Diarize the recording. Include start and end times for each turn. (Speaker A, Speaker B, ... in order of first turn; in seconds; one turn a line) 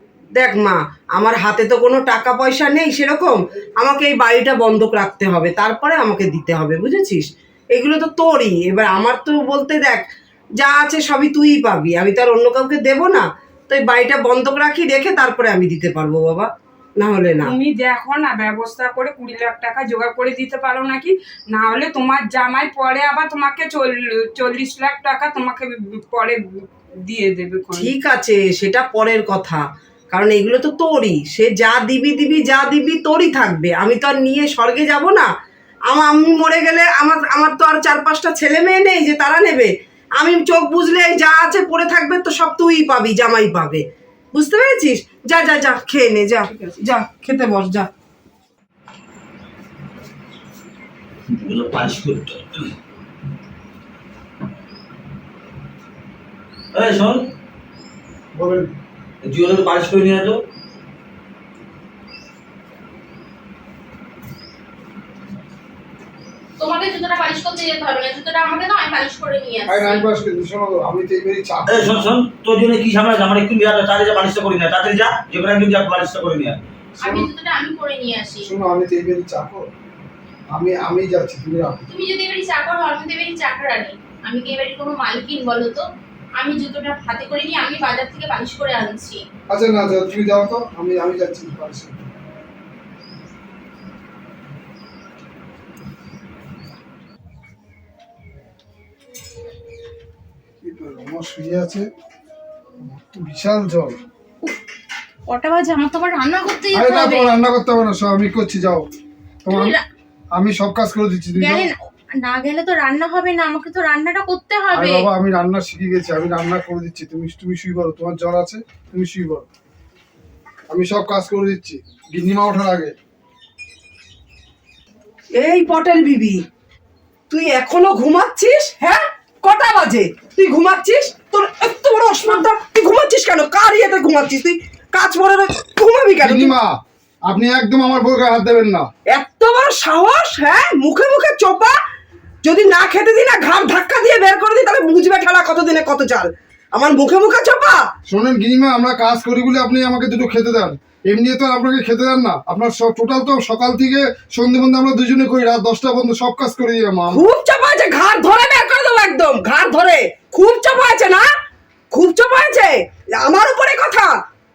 Speaker A: 0.4-17.6
Speaker B: 17.4-26.4
Speaker B: 27.1-27.9
Speaker A: 27.7-35.3
Speaker A: 35.9-47.9
Speaker C: 51.3-52.8
Speaker C: 56.7-57.3
Speaker D: 58.3-58.7
Speaker C: 59.2-60.4
Speaker E: 66.6-70.0
Speaker D: 69.7-72.1
Speaker C: 71.7-76.6
Speaker D: 77.0-77.3
Speaker E: 77.0-78.5
Speaker D: 78.5-79.7
Speaker D: 80.5-81.9
Speaker E: 81.9-89.2
Speaker D: 89.5-92.1
Speaker D: 100.6-101.9
Speaker D: 102.8-104.0
Speaker E: 105.3-107.4
Speaker D: 106.7-108.9
Speaker D: 109.4-109.8
Speaker E: 109.5-109.8
Speaker D: 110.3-111.7
Speaker E: 111.4-115.1
Speaker D: 114.7-119.5
Speaker D: 120.7-123.0
Speaker A: 125.4-126.4
Speaker A: 127.3-136.5
Speaker D: 136.2-138.9
Speaker A: 139.1-141.8
Speaker A: 142.4-147.9
Speaker D: 148.1-157.2
Speaker A: 157.1-161.3
Speaker A: 161.9-164.2